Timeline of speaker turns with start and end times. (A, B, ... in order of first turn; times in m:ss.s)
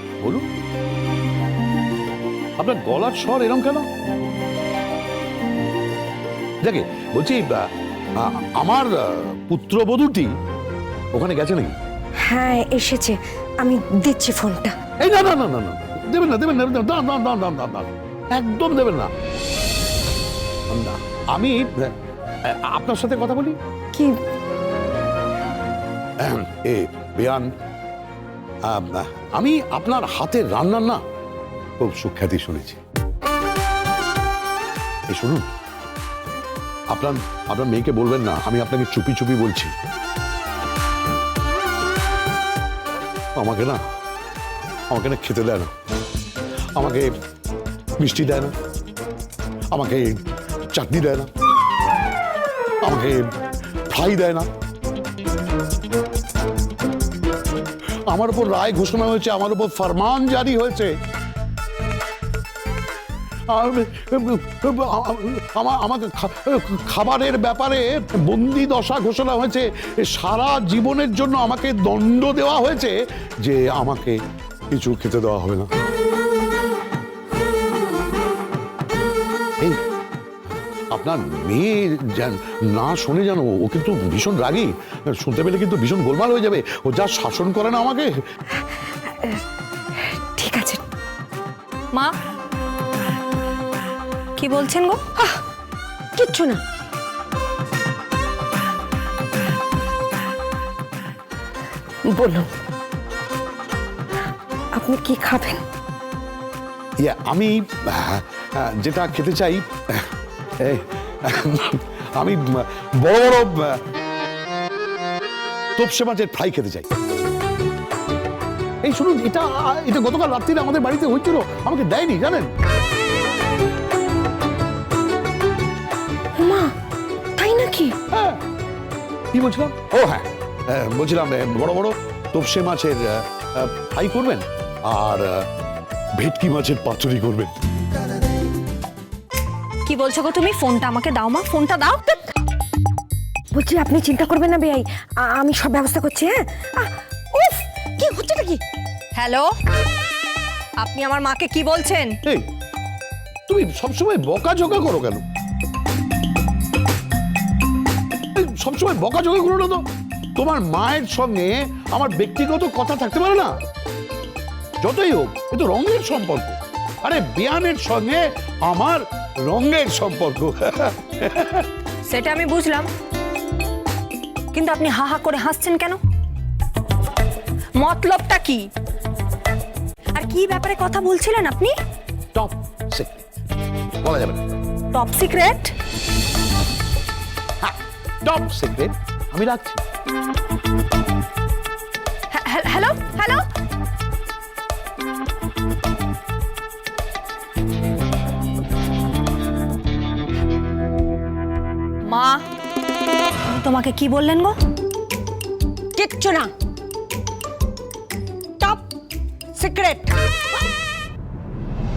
0:02.6-0:03.9 A
0:06.6-0:07.6 A
0:08.2-0:10.3 A
0:11.1-0:11.7 A
0:12.3-0:14.8 B
0:15.0-0:19.1 A
0:20.7-0:21.9 A
0:22.5-0:23.6 A
0:26.2-0:27.5 A
0:28.7-0:31.0 A
0:31.8-0:32.8 A
0:35.1-0:35.4 A
0:36.9-0:39.7 A
0:43.4-0:43.8 A
0:44.9-0:45.7 A
0:46.8-0:47.1 A
0:48.0-0:48.5 A
0:49.7-0:50.2 A
0:50.7-0:51.3 A
0:52.8-0:53.3 A
0:53.9-0:54.5 A
0:58.1-1:00.9 A
1:03.5-1:14.2 A
1:14.7-1:15.7 A
1:20.9-1:28.1 A
1:30.0-1:30.8 B
1:34.4-1:35.0 C
1:36.2-1:36.6 B
1:42.1-1:42.5 B
1:44.7-1:45.6 B
1:47.0-1:50.1 A
1:50.6-1:53.8 A
1:55.8-1:56.9 A
1:58.8-2:02.5 A
2:06.4-2:06.7 B
2:07.4-2:07.9 B
2:08.1-2:08.4 A
2:09.3-2:15.4 A
2:16.2-2:17.5 A
2:19.8-2:22.2 C
2:23.5-2:28.6 B
2:29.1-2:29.5 C
2:30.8-2:32.2 C
2:33.5-2:35.2 A
2:38.4-2:39.8 A
2:40.4-2:43.5 A
2:44.8-2:51.6 A
2:52.1-2:52.9 C
2:54.5-2:56.0 C
2:57.8-2:58.6 C
3:00.2-3:01.7 C
3:02.3-3:03.2 A
3:04.0-3:04.4 A
3:04.9-3:05.7 C
3:07.6-3:09.8 A
3:12.3-3:13.4 C
3:22.0-3:22.4 C
3:23.5-3:24.6 C
3:25.9-3:26.5 B
3:29.5-3:30.1 B